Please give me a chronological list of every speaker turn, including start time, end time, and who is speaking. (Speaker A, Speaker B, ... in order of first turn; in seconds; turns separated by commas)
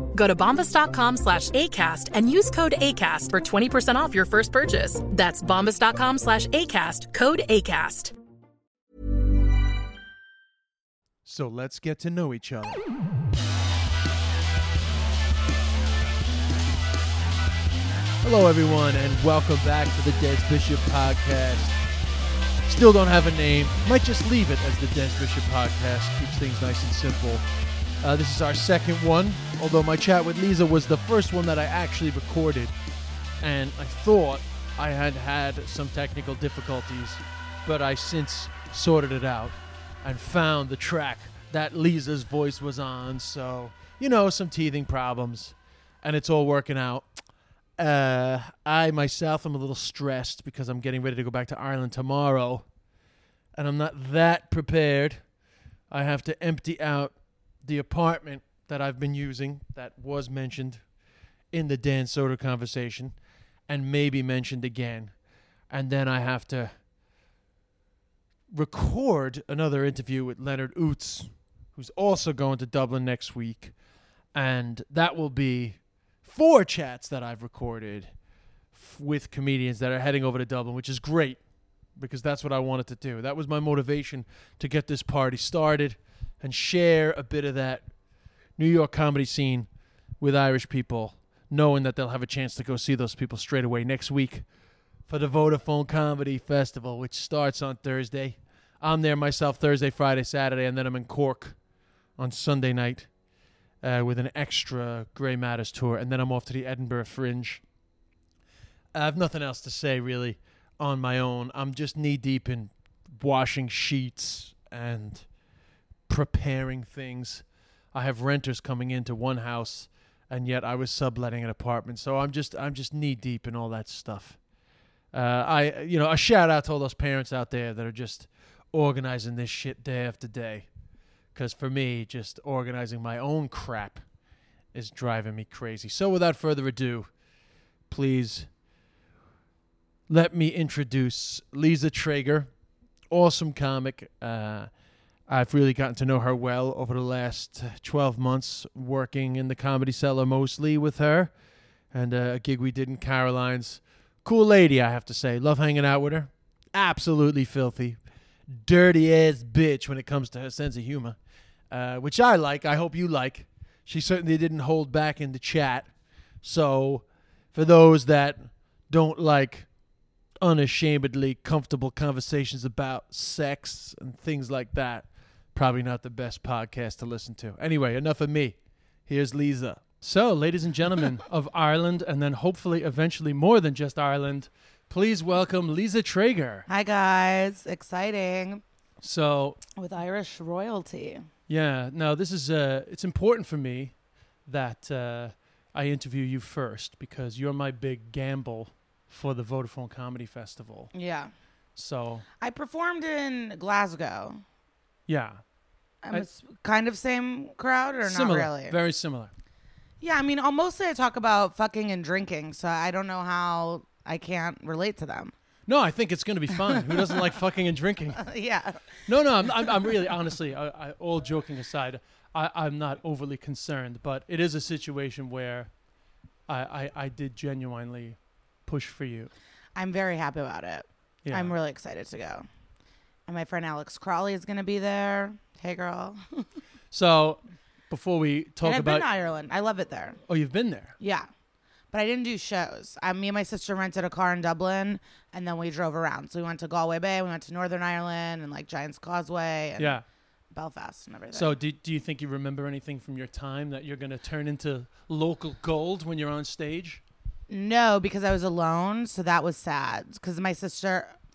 Speaker A: 0.1-8.1, Speaker B: 11.2-12.8, Speaker B: 18.2-21.8, Speaker B: 22.6-27.5, Speaker B: 28.0-32.8, Speaker B: 33.4-52.7, Speaker B: 53.5-55.3, Speaker B: 55.9-61.0, Speaker B: 61.5-66.8, Speaker B: 68.5-73.8, Speaker B: 74.3-103.2, Speaker B: 103.8-107.7, Speaker B: 108.9-115.4, Speaker B: 116.1-124.5, Speaker B: 125.1-130.7, Speaker B: 131.3-134.1, Speaker B: 134.7-137.2, Speaker B: 137.8-138.5, Speaker B: 140.1-169.8, Speaker B: 170.4-186.7, Speaker C: 186.7-188.6, Speaker B: 189.0-189.6, Speaker C: 189.8-191.3, Speaker B: 191.5-200.9, Speaker C: 200.9-201.3, Speaker B: 201.8-202.2, Speaker C: 202.4-204.4, Speaker B: 205.1-205.4, Speaker C: 206.0-208.8, Speaker B: 208.0-209.3, Speaker C: 210.0-215.3, Speaker B: 215.7-218.3, Speaker C: 216.7-217.2, Speaker C: 218.2-219.0, Speaker B: 219.1-225.7, Speaker C: 219.5-219.9, Speaker B: 226.5-229.3, Speaker C: 229.8-232.5, Speaker B: 231.2-231.5, Speaker C: 233.3-236.4, Speaker B: 236.9-239.1, Speaker C: 238.6-240.2, Speaker B: 240.3-240.9, Speaker C: 241.0-241.3, Speaker C: 241.9-250.0, Speaker B: 249.8-250.0, Speaker C: 250.5-251.6, Speaker B: 251.3-257.0, Speaker C: 257.5-261.1